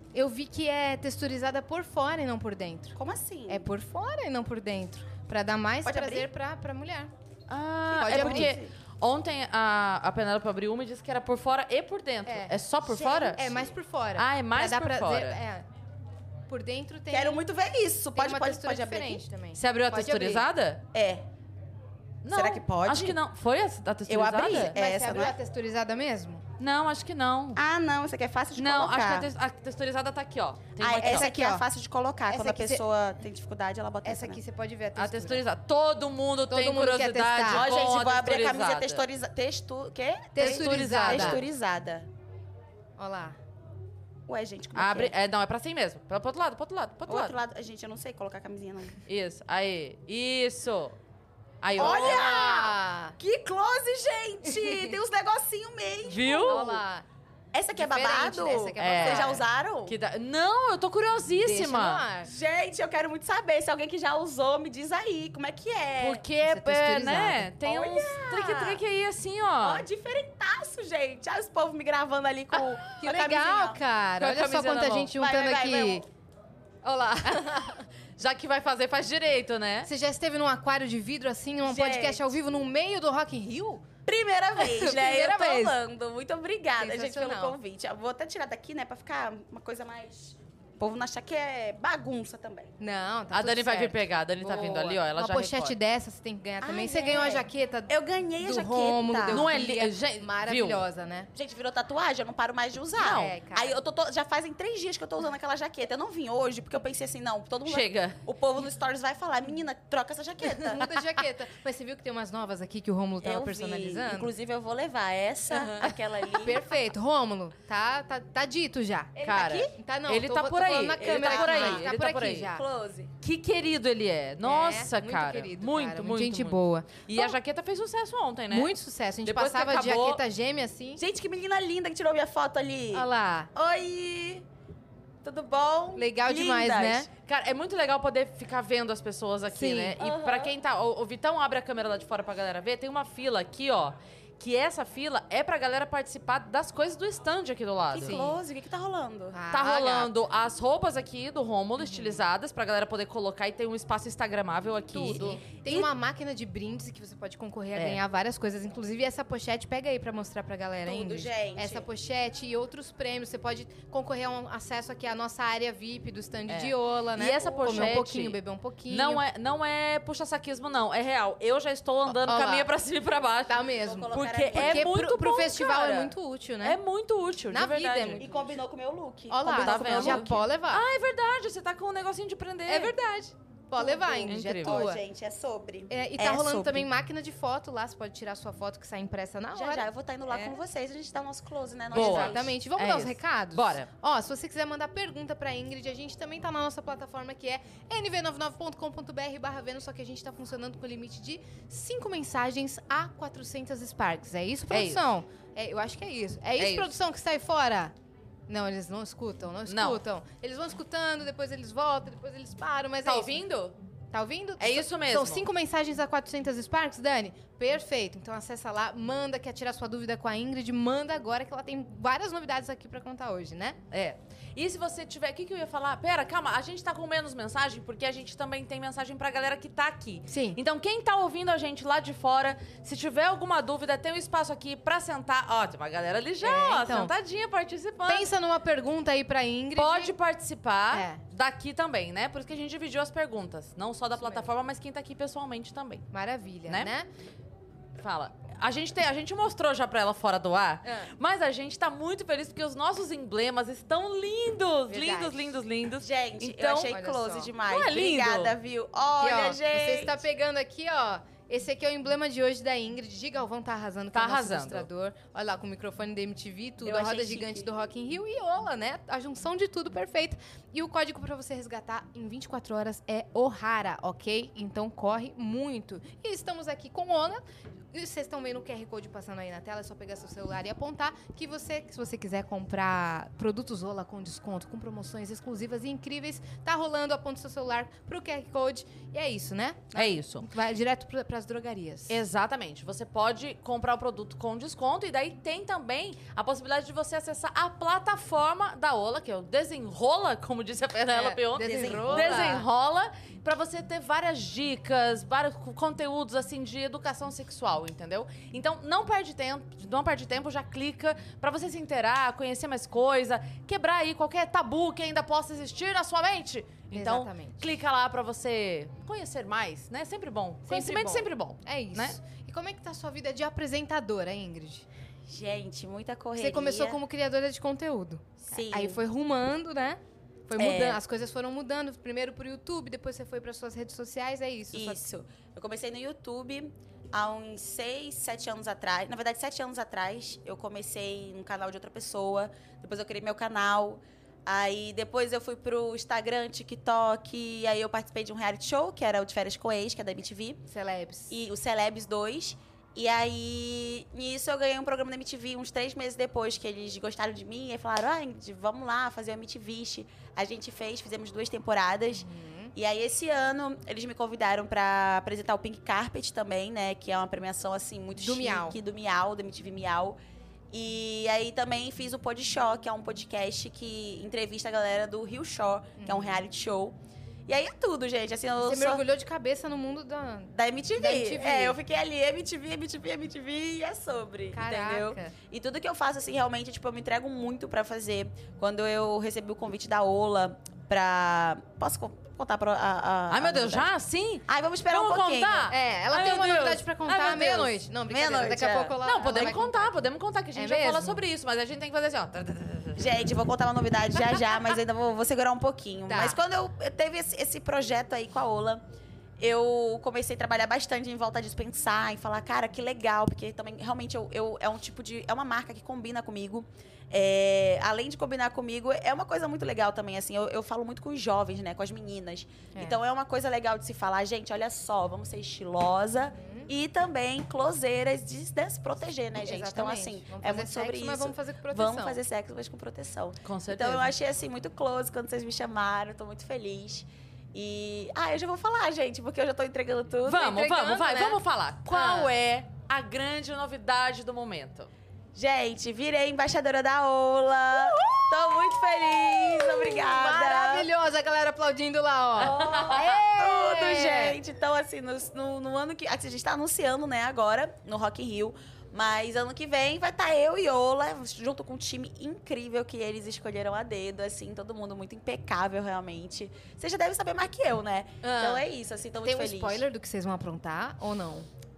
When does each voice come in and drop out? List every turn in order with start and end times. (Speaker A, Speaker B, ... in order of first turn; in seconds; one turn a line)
Speaker A: 0.1-3.0
Speaker B: 3.0-3.7
Speaker A: 3.5-7.1
Speaker B: 5.8-6.3
Speaker C: 7.5-13.4
Speaker B: 7.9-8.7
Speaker A: 8.0-8.5
Speaker A: 12.3-15.7
Speaker B: 13.3-13.7
Speaker C: 14.2-15.4
Speaker A: 16.5-17.4
Speaker B: 17.1-19.3
Speaker A: 18.1-20.4
Speaker C: 19.6-20.8
Speaker B: 20.9-21.2
Speaker C: 22.2-24.8
Speaker B: 22.3-23.2
Speaker B: 24.1-25.4
Speaker A: 24.7-26.4
Speaker C: 26.6-27.6
Speaker B: 27.6-29.3
Speaker C: 28.6-31.2
Speaker B: 30.8-34.4
Speaker A: 31.0-31.6
Speaker A: 32.3-32.8
Speaker A: 34.0-35.4
Speaker C: 35.0-39.0
Speaker A: 36.5-37.6
Speaker B: 37.5-42.1
Speaker A: 40.4-41.4
Speaker C: 40.4-41.4
Speaker A: 43.0-43.4
Speaker B: 44.3-45.1
Speaker C: 44.8-47.3
Speaker B: 47.1-49.0
Speaker C: 49.1-51.0
Speaker C: 51.6-52.2
Speaker B: 51.8-56.8
Speaker A: 51.8-53.1
Speaker A: 54.5-54.9
Speaker C: 56.1-56.7
Speaker A: 56.3-57.1
Speaker B: 57.5-60.0
Speaker A: 57.7-59.4
Speaker C: 58.8-62.0
Speaker A: 61.4-62.3
Speaker B: 62.2-66.2
Speaker C: 66.0-69.8
Speaker A: 66.4-67.5
Speaker B: 67.6-68.8
Speaker B: 69.6-73.8
Speaker A: 73.0-76.0
Speaker C: 74.2-75.1
Speaker B: 75.1-76.1
Speaker A: 76.8-77.8
Speaker C: 77.3-77.7
Speaker C: 78.2-79.9
Speaker A: 79.8-83.8
Speaker B: 81.7-82.3
Speaker B: 84.1-92.7
Speaker A: 84.6-85.8
Speaker A: 86.8-87.6
Speaker A: 92.8-101.3
Speaker C: 93.3-95.8
Speaker B: 96.6-99.5
Speaker C: 99.3-100.8
Speaker B: 101.3-110.9
Speaker C: 103.0-103.3
Speaker A: 103.0-103.8
Speaker C: 107.7-108.2
Speaker A: 110.6-114.3
Speaker B: 113.2-116.6
Speaker A: 115.5-119.2
Speaker B: 119.2-119.7
Speaker C: 119.2-122.5
Speaker A: 119.7-122.6
Speaker B: 120.9-121.9
Speaker B: 122.5-123.1
Speaker C: 123.2-128.7
Speaker A: 124.4-127.4
Speaker A: 128.5-131.0
Speaker C: 129.2-130.2
Speaker B: 131.0-134.4
Speaker A: 132.9-133.5
Speaker B: 135.2-137.1
Speaker A: 136.0-137.1
Speaker C: 137.2-148.2
Speaker A: 139.5-139.9
Speaker B: 140.0-140.6
Speaker B: 147.9-149.4
Speaker A: 148.0-148.4
Speaker A: 149.3-150.1
Speaker C: 149.5-155.4
Speaker A: 151.8-152.2
Speaker A: 154.9-169.2
Speaker B: 155.0-155.9
Speaker C: 157.8-158.0
Speaker B: 160.8-161.9
Speaker C: 166.5-168.4
Speaker B: 167.4-168.0
Speaker C: 168.9-178.4
Speaker A: 172.1-172.7
Speaker A: 173.5-176.8
Speaker B: 173.7-174.9
Speaker A: 177.5-178.2
Speaker B: 178.2-180.4
Speaker A: 179.3-180.8
Speaker C: 179.5-182.9
Speaker A: 182.7-185.0
Speaker B: 183.8-186.9
Speaker C: 184.3-184.8
Speaker A: 185.9-190.6
Speaker B: 189.5-192.5
Speaker C: 191.9-193.9
Speaker A: 191.9-207.9
Speaker C: 204.7-205.1
Speaker C: 206.6-206.9
Speaker A: 208.5-213.4
Speaker C: 209.7-210.0
Speaker C: 213.0-213.8
Speaker A: 214.1-223.8
Speaker C: 214.6-215.5
Speaker C: 223.9-238.3
Speaker A: 230.3-230.6
Speaker A: 236.4-237.1
Speaker A: 238.1-240.2
Speaker C: 239.8-246.1
Speaker A: 240.9-241.2
Speaker A: 244.2-244.5
Speaker A: 246.1-247.1
Speaker C: 248.0-256.9
Speaker A: 250.8-251.1
Speaker A: 254.9-255.5
Speaker B: 256.0-260.2
Speaker A: 256.9-257.5
Speaker C: 257.7-258.5
Speaker A: 259.2-292.1
Speaker C: 264.1-264.9
Speaker B: 266.8-267.7
Speaker C: 289.9-290.5
Speaker C: 292.1-322.2
Speaker A: 301.1-302.7
Speaker B: 301.6-302.6
Speaker A: 316.9-317.8
Speaker A: 320.7-324.9
Speaker B: 325.3-327.0
Speaker A: 326.4-335.0
Speaker B: 328.4-329.0
Speaker B: 330.6-331.0
Speaker B: 334.7-350.6
Speaker A: 350.7-351.4
Speaker B: 351.3-370.2
Speaker A: 362.1-362.7
Speaker A: 368.2-368.8
Speaker B: 370.7-379.0
Speaker A: 376.0-376.4
Speaker A: 378.6-381.8
Speaker B: 380.5-393.9
Speaker A: 384.5-385.3
Speaker C: 393.3-397.7
Speaker B: 394.5-395.7
Speaker A: 395.7-399.9
Speaker B: 398.1-398.9
Speaker C: 399.1-403.2
Speaker A: 400.6-401.2
Speaker B: 403.0-408.8
Speaker A: 406.1-406.4
Speaker B: 409.4-440.5
Speaker A: 426.3-426.7
Speaker A: 429.4-432.2
Speaker C: 433.4-434.1
Speaker C: 440.3-444.9
Speaker A: 440.3-442.3
Speaker B: 445.4-450.9
Speaker A: 449.2-454.4
Speaker B: 452.4-469.9
Speaker C: 452.4-453.1
Speaker A: 468.2-468.6
Speaker A: 469.2-471.5